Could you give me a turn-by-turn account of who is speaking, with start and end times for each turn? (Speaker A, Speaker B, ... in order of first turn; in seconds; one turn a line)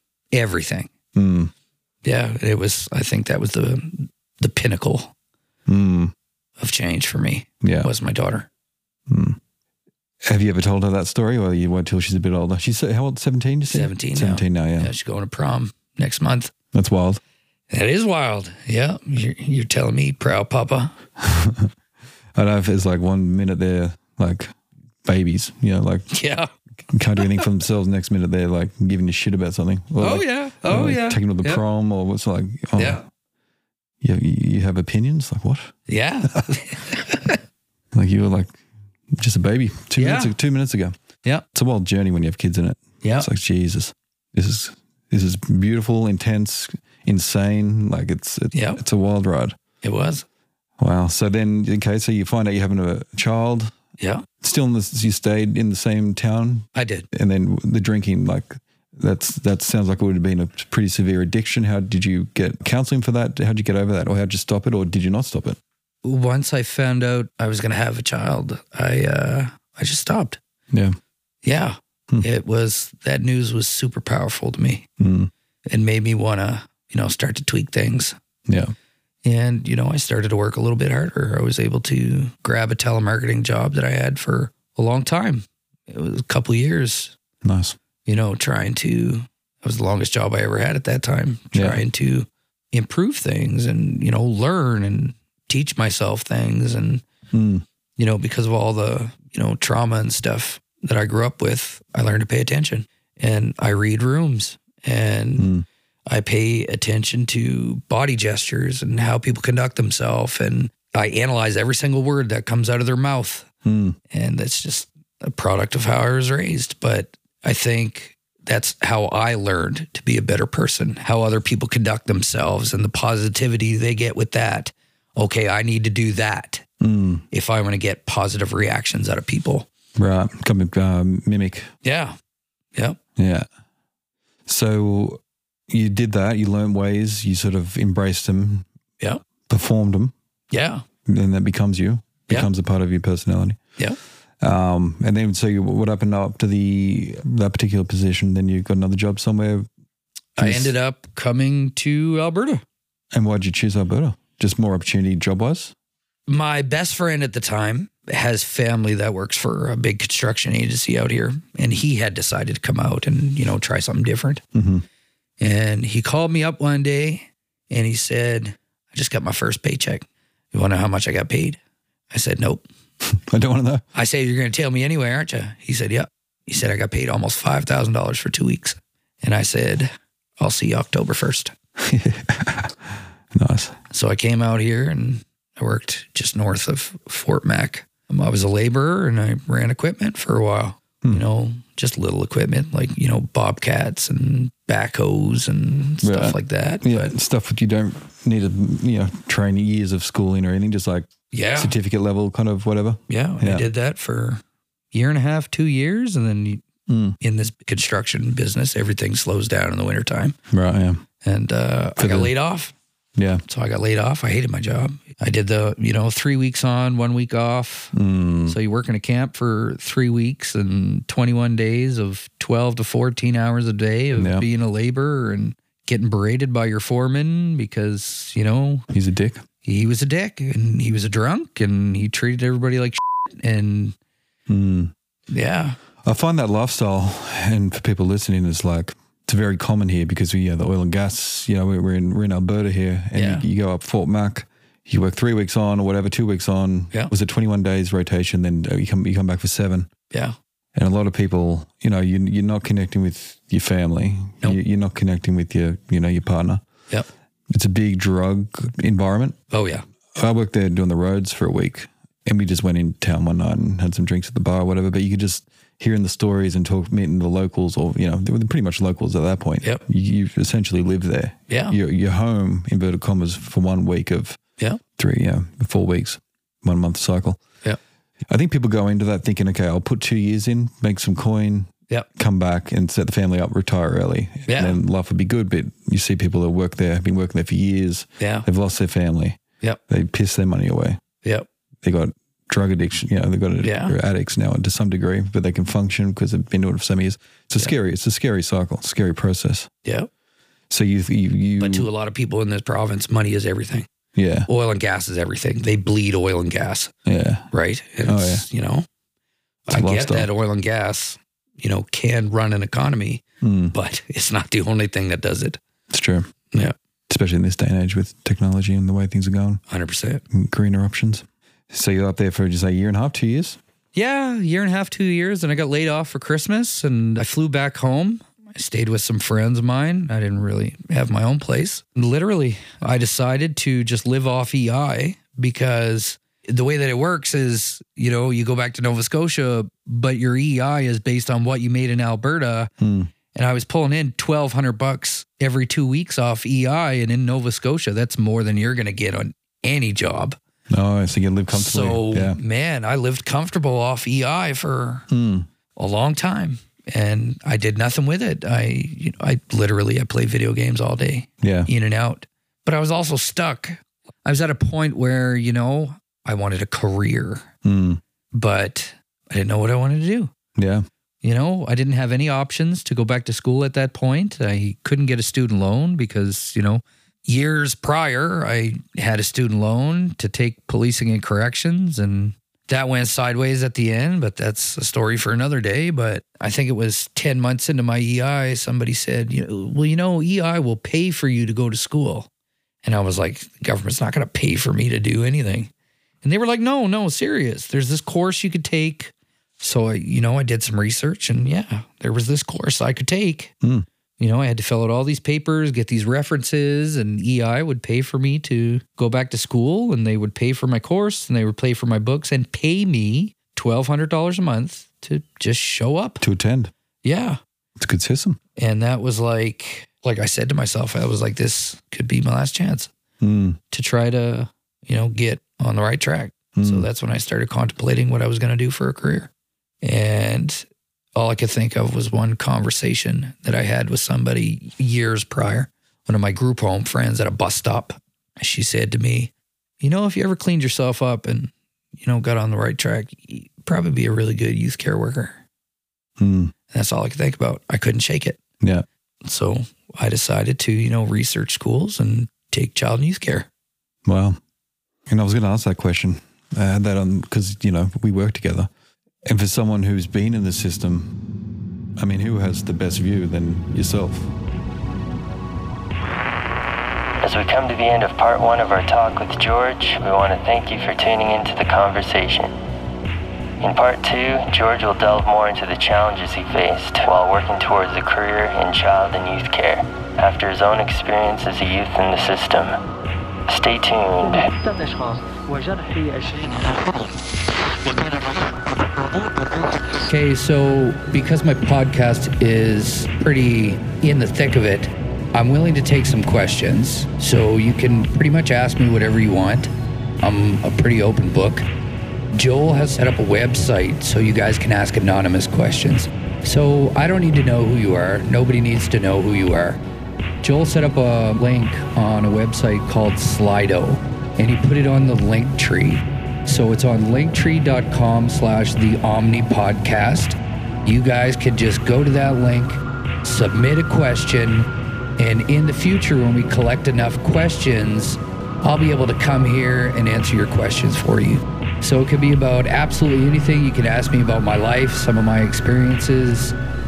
Speaker A: 0.3-0.9
Speaker B: 1.1-1.5
Speaker A: 2.0-5.1
Speaker B: 5.7-6.1
Speaker A: 6.6-8.5
Speaker B: 7.6-7.9
Speaker B: 9.1-9.4
Speaker B: 10.2-14.9
Speaker A: 13.7-16.5
Speaker B: 16.7-17.2
Speaker A: 17.7-20.9
Speaker B: 21.2-21.7
Speaker B: 22.4-24.5
Speaker B: 25.1-26.1
Speaker A: 26.1-26.5
Speaker B: 26.9-33.0
Speaker A: 27.2-27.5
Speaker A: 30.0-31.6
Speaker A: 32.8-33.0
Speaker B: 34.0-35.7
Speaker A: 35.9-37.4
Speaker B: 37.9-38.5
Speaker B: 39.1-40.9
Speaker A: 40.0-40.3
Speaker B: 41.5-49.6
Speaker A: 43.0-43.3
Speaker A: 48.5-48.8
Speaker A: 49.8-50.2
Speaker B: 50.8-53.7
Speaker A: 54.0-54.2
Speaker B: 54.4-65.6
Speaker A: 56.7-57.1
Speaker A: 66.0-70.4
Speaker B: 70.7-71.0
Speaker A: 71.4-74.9
Speaker B: 75.0-75.3
Speaker A: 75.7-78.2
Speaker B: 78.5-78.7
Speaker A: 79.2-87.2
Speaker B: 87.4-87.8
Speaker A: 88.1-97.0
Speaker B: 91.5-91.8
Speaker B: 97.3-97.6
Speaker A: 98.0-105.5
Speaker B: 105.4-105.7
Speaker A: 106.1-113.5
Speaker B: 113.6-114.0
Speaker A: 114.1-126.7
Speaker B: 126.8-127.2
Speaker A: 127.3-129.7
Speaker B: 129.9-131.7
Speaker A: 131.8-132.2
Speaker B: 133.2-133.5
Speaker B: 134.4-138.7
Speaker B: 139.5-140.1
Speaker A: 140.5-140.8
Speaker B: 141.1-143.6
Speaker B: 144.4-149.7
Speaker A: 150.4-152.6
Speaker B: 150.4-150.7
Speaker B: 153.1-155.7
Speaker A: 156.3-164.4
Speaker B: 164.5-164.8
Speaker A: 165.4-171.6
Speaker A: 172.1-172.7
Speaker B: 173.0-173.8
Speaker A: 173.9-181.5
Speaker B: 181.8-183.8
Speaker A: 183.9-197.1
Speaker B: 196.0-203.7
Speaker A: 201.3-201.8
Speaker A: 203.1-204.4
Speaker A: 204.9-206.6
Speaker B: 206.9-207.2
Speaker A: 207.2-210.3
Speaker B: 210.5-211.0
Speaker A: 211.2-212.7
Speaker B: 212.0-212.3
Speaker B: 213.2-213.4
Speaker A: 213.5-217.9
Speaker B: 217.9-218.6
Speaker A: 218.5-228.8
Speaker B: 224.1-224.5
Speaker B: 228.9-229.4
Speaker A: 229.6-234.0
Speaker B: 234.5-234.9
Speaker A: 235.3-235.8
Speaker B: 236.0-249.9
Speaker A: 243.1-243.5
Speaker A: 250.1-250.3
Speaker B: 250.8-256.6
Speaker B: 257.5-259.4
Speaker A: 259.5-259.8
Speaker B: 260.1-274.4
Speaker A: 271.5-271.8
Speaker B: 275.0-277.4
Speaker B: 278.3-291.0
Speaker A: 284.5-284.8
Speaker A: 288.2-288.5
Speaker B: 291.8-299.7
Speaker A: 293.6-293.9
Speaker B: 300.7-301.9
Speaker A: 301.6-303.9
Speaker B: 304.1-304.5
Speaker A: 304.5-306.9
Speaker B: 307.1-307.5
Speaker A: 307.5-308.9
Speaker B: 308.0-308.5
Speaker A: 309.7-315.6
Speaker B: 309.7-310.3
Speaker B: 313.4-313.8
Speaker B: 315.9-316.3
Speaker B: 317.1-319.6
Speaker A: 319.7-320.2
Speaker B: 320.3-323.6
Speaker A: 323.9-342.7
Speaker B: 342.8-343.1
Speaker A: 343.3-350.4
Speaker B: 350.7-352.4
Speaker A: 351.5-355.1
Speaker B: 355.1-355.5
Speaker A: 355.8-367.5
Speaker B: 361.4-361.7
Speaker B: 367.6-368.0
Speaker A: 368.3-370.3
Speaker B: 370.6-370.9
Speaker A: 371.2-392.3
Speaker A: 392.8-395.7
Speaker A: 396.2-403.5
Speaker A: 404.2-416.2
Speaker B: 416.2-416.7
Speaker A: 417.0-417.4
Speaker B: 417.8-418.4
Speaker A: 418.6-422.9
Speaker B: 423.2-423.6
Speaker A: 423.7-429.3
Speaker B: 426.6-426.9
Speaker A: 429.8-445.4
Speaker B: 446.2-446.5
Speaker A: 446.7-448.4
Speaker A: 449.2-453.5
Speaker B: 454.0-454.4
Speaker B: 455.1-458.7
Speaker B: 459.2-461.1
Speaker B: 462.0-464.3
Speaker C: 467.2-472.5
Speaker C: 473.6-482.8
Speaker C: 483.5-484.5
Speaker D: 484.2-486.8
Speaker A: 490.1-499.7
Speaker A: 500.2-501.6
Speaker A: 502.3-509.8
Speaker A: 510.4-536.5